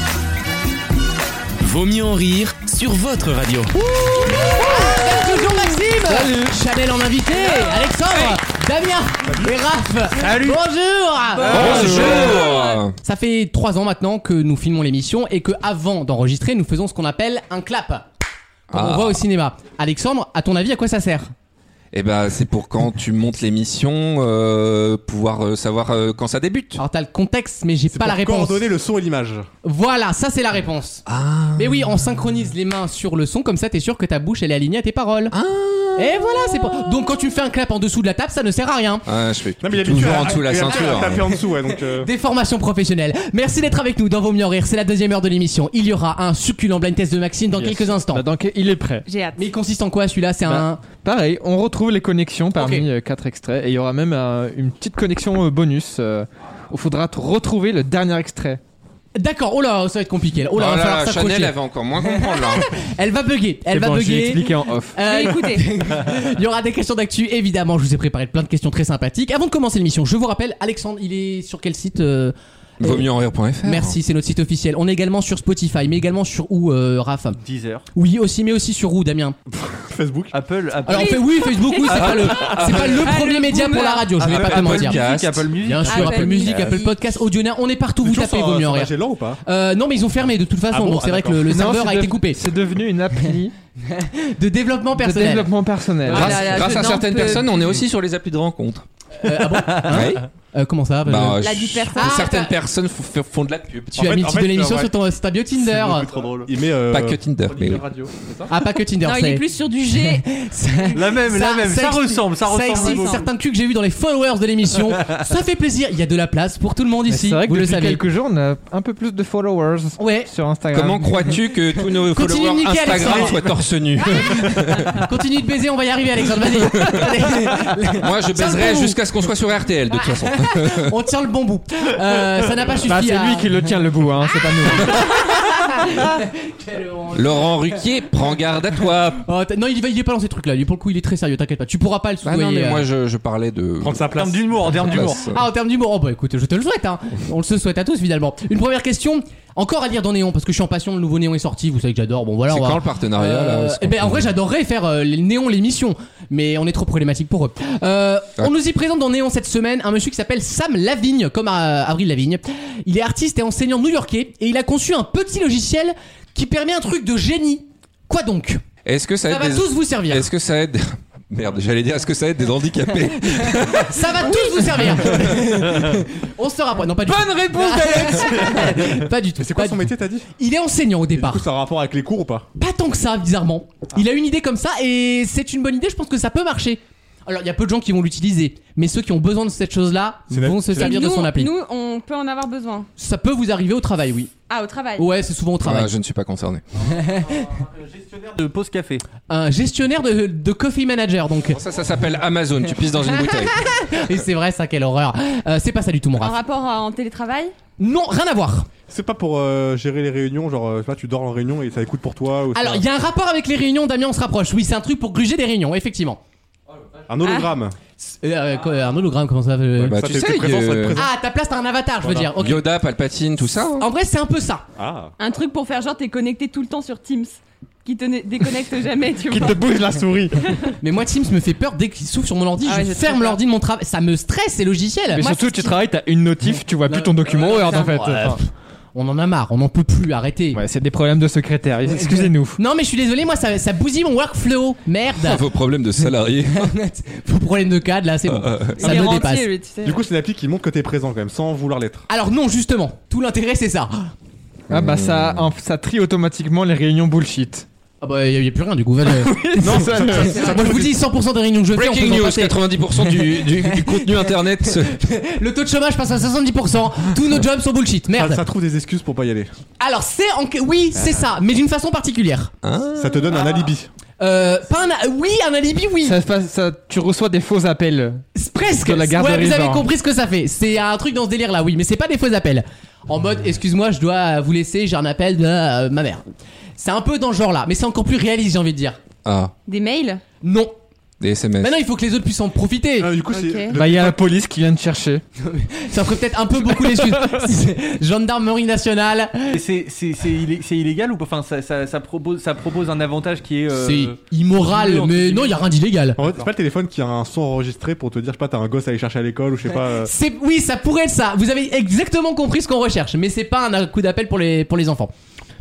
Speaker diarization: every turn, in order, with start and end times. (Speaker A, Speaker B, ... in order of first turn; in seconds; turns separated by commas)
Speaker A: 1.6-3.7, Speaker B: 4.0-4.2, Speaker C: 4.5-18.1, Speaker B: 4.8-6.5, Speaker D: 9.2-9.6, Speaker E: 10.2-10.6, Speaker F: 11.4-12.8, Speaker E: 11.4-12.5, Speaker G: 11.5-12.9, Speaker G: 18.7-19.2, Speaker C: 18.7-21.3, Speaker G: 21.9-26.8, Speaker C: 26.8-28.7, Speaker D: 27.9-29.5, Speaker C: 29.6-31.0, Speaker G: 31.1-32.0, Speaker C: 31.6-35.3, Speaker G: 35.3-36.9, Speaker C: 36.0-39.0, Speaker G: 39.0-41.2, Speaker D: 39.6-42.1, Speaker C: 40.6-48.2, Speaker B: 47.5-49.0, Speaker F: 49.1-49.5, Speaker C: 49.4-50.8, Speaker B: 50.5-58.6, Speaker C: 52.5-52.9, Speaker C: 59.1-73.1, Speaker G: 60.5-62.8, Speaker B: 63.7-65.1, Speaker F: 65.0-65.7, Speaker G: 72.8-74.0, Speaker C: 73.6-77.4, Speaker E: 77.4-77.8, Speaker C: 77.9-79.4, Speaker D: 79.5-80.3, Speaker E: 80.3-82.2, Speaker C: 80.8-85.0, Speaker F: 80.9-84.1, Speaker G: 81.9-83.2, Speaker E: 83.7-86.7, Speaker G: 84.3-85.7, Speaker C: 85.6-88.9, Speaker F: 85.9-86.9, Speaker D: 88.0-89.4, Speaker C: 89.4-92.5, Speaker D: 90.7-91.5, Speaker B: 91.5-93.5, Speaker C: 93.9-95.5, Speaker B: 95.0-96.4, Speaker G: 96.1-98.8, Speaker F: 96.1-97.8, Speaker C: 99.2-102.5, Speaker G: 99.8-100.2, Speaker G: 101.0-104.1, Speaker F: 101.4-102.4, Speaker C: 104.0-106.1, Speaker D: 104.0-105.0, Speaker E: 105.6-106.5, Speaker D: 105.7-107.2, Speaker G: 106.9-107.8, Speaker E: 107.5-108.5, Speaker C: 108.5-118.0, Speaker F: 109.0-110.2, Speaker E: 110.9-113.3, Speaker F: 112.6-113.2, Speaker B: 117.1-121.4, Speaker C: 120.0-120.3, Speaker G: 120.7-125.1, Speaker C: 122.1-123.4, Speaker D: 123.0-123.6, Speaker C: 124.2-129.0, Speaker G: 126.8-127.1, Speaker G: 128.0-130.9, Speaker C: 130.0-133.6, Speaker B: 132.8-135.7, Speaker C: 134.7-137.8, Speaker G: 137.1-139.2, Speaker C: 139.2-142.8, Speaker G: 142.2-145.4, Speaker D: 143.8-145.1, Speaker E: 144.1-145.2, Speaker C: 145.1-168.6, Speaker G: 152.5-154.3, Speaker G: 168.8-175.4, Speaker C: 169.3-170.3, Speaker C: 173.7-181.5, Speaker B: 177.2-178.1, Speaker D: 179.4-180.3, Speaker D: 181.1-182.5, Speaker C: 182.6-191.5, Speaker D: 190.3-191.0, Speaker F: 190.8-192.9, Speaker C: 193.0-194.3, Speaker F: 194.5-195.1, Speaker C: 195.0-195.9, Speaker G: 195.6-196.6, Speaker E: 196.8-199.0, Speaker C: 199.3-201.6, Speaker G: 201.5-203.7, Speaker C: 203.0-206.3, Speaker F: 206.2-207.5, Speaker C: 207.8-208.7, Speaker D: 208.9-212.8, Speaker C: 212.5-216.2, Speaker D: 217.1-217.8, Speaker F: 217.2-217.5, Speaker C: 218.0-220.0, Speaker D: 219.8-221.1, Speaker G: 219.9-221.0, Speaker C: 220.9-222.6, Speaker D: 222.0-222.3, Speaker G: 222.3-223.9, Speaker C: 223.8-224.6, Speaker D: 224.8-225.1, Speaker F: 225.2-229.6, Speaker B: 229.3-230.6, Speaker C: 230.8-235.3, Speaker F: 232.6-233.4, Speaker B: 235.1-238.4, Speaker F: 235.2-235.8, Speaker C: 236.9-240.6, Speaker F: 237.4-237.9, Speaker B: 240.5-242.6, Speaker C: 241.9-245.4, Speaker G: 245.2-246.7, Speaker C: 246.5-249.5, Speaker G: 248.3-249.1, Speaker F: 248.8-250.0, Speaker D: 249.8-252.1, Speaker C: 252.1-254.1, Speaker G: 254.7-255.5, Speaker B: 254.7-257.6, Speaker C: 258.0-268.4, Speaker B: 259.1-260.7, Speaker D: 259.6-261.0, Speaker G: 259.6-260.7, Speaker G: 261.7-264.9, Speaker D: 268.1-269.5, Speaker C: 269.8-272.5, Speaker G: 272.6-273.4, Speaker D: 273.0-273.9, Speaker C: 274.2-276.2, Speaker B: 276.0-279.9, Speaker C: 278.3-286.2, Speaker C: 286.8-289.0, Speaker G: 289.2-289.5, Speaker F: 289.7-290.2, Speaker C: 290.4-290.7, Speaker G: 291.2-291.8, Speaker C: 291.6-293.1, Speaker D: 293.0-294.3, Speaker F: 293.3-293.7, Speaker B: 293.7-295.2, Speaker C: 295.4-299.6, Speaker B: 296.8-297.5, Speaker E: 299.5-305.7, Speaker C: 303.7-306.2, Speaker D: 306.2-310.1, Speaker C: 309.8-315.1